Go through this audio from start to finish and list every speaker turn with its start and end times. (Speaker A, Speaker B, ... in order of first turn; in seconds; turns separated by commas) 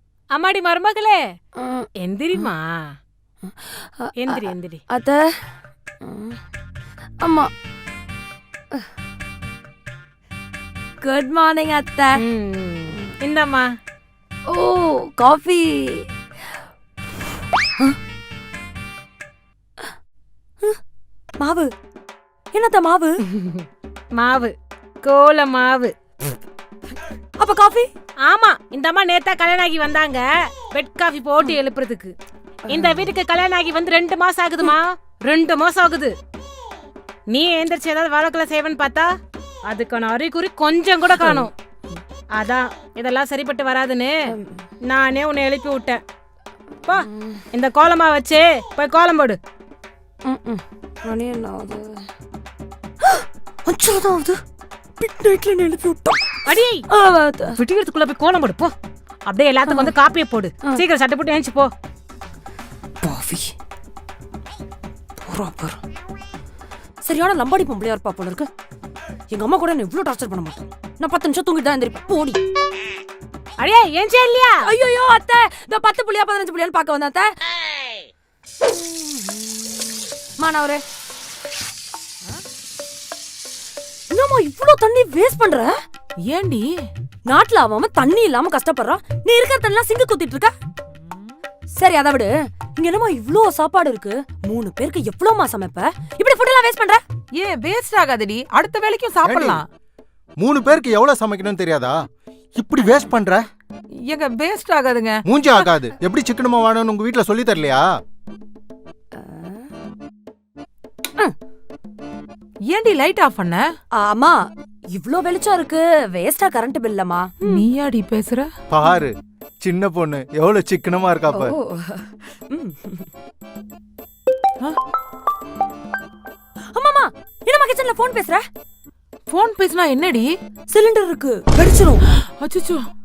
Speaker A: 0.3-1.2, Speaker B: 1.6-2.4, Speaker A: 2.0-2.8, Speaker B: 3.4-5.3, Speaker A: 4.2-4.8, Speaker B: 6.0-6.4, Speaker B: 7.2-7.5, Speaker B: 11.0-12.2, Speaker A: 12.2-13.7, Speaker B: 14.5-16.1, Speaker B: 21.4-21.7, Speaker B: 22.5-23.2, Speaker A: 23.3-23.6, Speaker A: 24.2-25.9, Speaker B: 27.4-27.9, Speaker A: 28.3-32.1, Speaker A: 32.7-36.1, Speaker B: 32.7-33.1, Speaker A: 37.3-39.1, Speaker A: 39.7-41.5, Speaker B: 41.1-41.5, Speaker A: 42.4-44.3, Speaker B: 44.3-44.6, Speaker A: 44.9-46.0, Speaker A: 46.8-49.4, Speaker B: 47.1-47.4, Speaker B: 50.2-52.0, Speaker B: 53.0-54.4, Speaker B: 55.0-57.5, Speaker A: 56.5-56.8, Speaker A: 57.5-58.7, Speaker A: 59.3-61.7, Speaker B: 59.7-59.9, Speaker B: 63.0-63.5, Speaker B: 65.2-65.8, Speaker B: 67.0-68.5, Speaker B: 69.3-72.4, Speaker A: 73.6-74.7, Speaker B: 74.6-77.3, Speaker B: 78.6-79.7, Speaker B: 80.4-80.8, Speaker B: 84.1-85.8, Speaker C: 86.2-86.7, Speaker B: 87.2-90.5, Speaker B: 91.8-97.0, Speaker C: 97.3-99.6, Speaker D: 99.2-99.6, Speaker D: 100.4-102.0, Speaker D: 102.6-103.4, Speaker C: 104.0-105.2, Speaker D: 105.2-107.8, Speaker B: 109.1-109.7, Speaker C: 112.7-113.7, Speaker B: 113.9-117.7, Speaker C: 117.5-118.5, Speaker D: 118.7-121.5, Speaker B: 121.3-123.1, Speaker B: 126.7-128.4, Speaker C: 129.3-130.3, Speaker B: 130.7-132.1, Speaker C: 132.4-132.9